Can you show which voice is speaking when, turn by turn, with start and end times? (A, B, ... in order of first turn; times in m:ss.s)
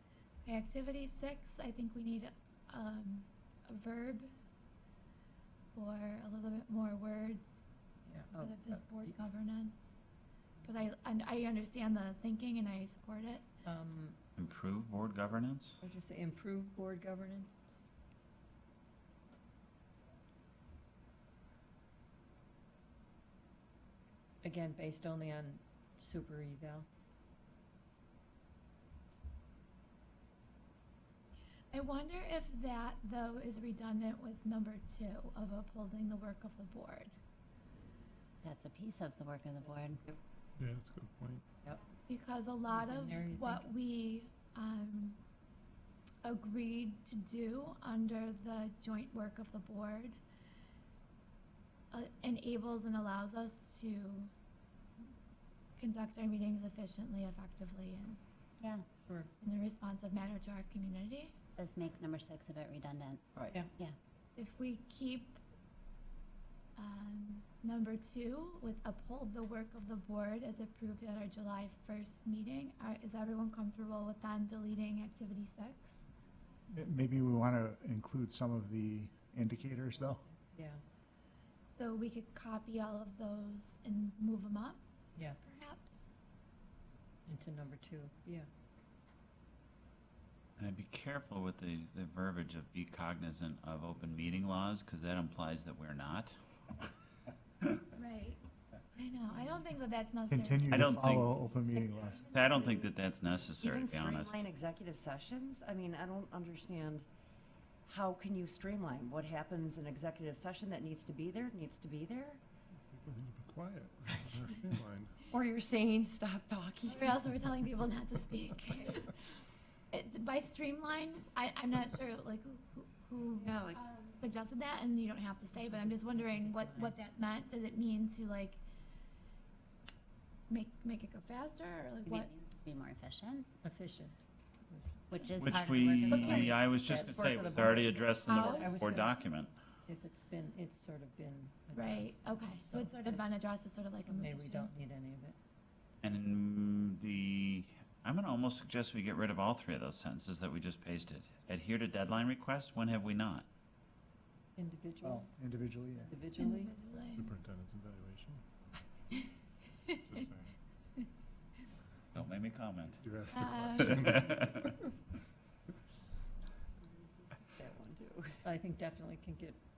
0:00.4-0:04.3 A
0:05.7-0:07.6 A
0:08.1-0:09.1 B
0:08.4-0:09.8 A
0:10.6-0:13.5 A
0:13.6-0:14.2 B
0:14.4-0:15.8 C
0:15.8-0:17.8 B
0:24.4-0:26.9 B
0:31.7-0:37.1 A
0:38.4-0:40.0 D
0:40.6-0:41.4 E
0:42.1-0:45.2 A
0:42.7-0:43.6 B
0:46.2-0:50.2 A
0:51.9-0:54.3 A
0:55.8-0:58.2 A
0:58.6-0:58.9 D
0:59.4-1:01.4 A
1:01.6-1:04.0 D
1:03.4-1:03.6 F
1:04.4-1:05.4 A
1:06.8-1:16.0 A
1:16.7-1:20.2 G
1:20.4-1:20.8 B
1:21.8-1:24.8 A
1:25.4-1:26.0 A
1:27.3-1:28.5 B
1:30.6-1:36.9 C
1:38.0-1:38.4 A
1:39.0-1:40.8 A
1:40.3-1:42.3 G
1:40.7-1:41.4 C
1:42.2-1:44.5 C
1:43.6-1:47.0 F
1:47.8-1:52.4 F
1:52.9-1:55.2 E
1:55.3-1:57.4 F
1:56.8-1:59.1 A
1:59.9-2:08.6 A
2:03.4-2:03.8 F
2:05.5-2:07.0 B
2:10.5-2:12.3 A
2:12.0-2:13.5 D
2:13.6-2:15.1 B
2:15.1-2:16.7 D
2:15.4-2:19.5 C
2:16.0-2:16.4 A
2:16.1-2:19.2 B
2:16.8-2:18.6 F
2:19.8-2:23.2 B
2:21.8-2:24.7 A
2:24.0-2:25.4 B
2:26.0-2:33.5 C
2:34.6-2:35.3 B
2:35.0-2:36.1 G
2:36.0-2:36.7 B
2:36.3-2:37.3 A
2:37.2-2:38.4 E
2:40.0-2:40.5 E
2:42.1-2:43.0 C
2:43.0-2:44.7 E
2:43.3-2:43.8 A
2:43.8-2:44.5 C
2:47.5-2:48.4 F
2:48.4-2:49.6 B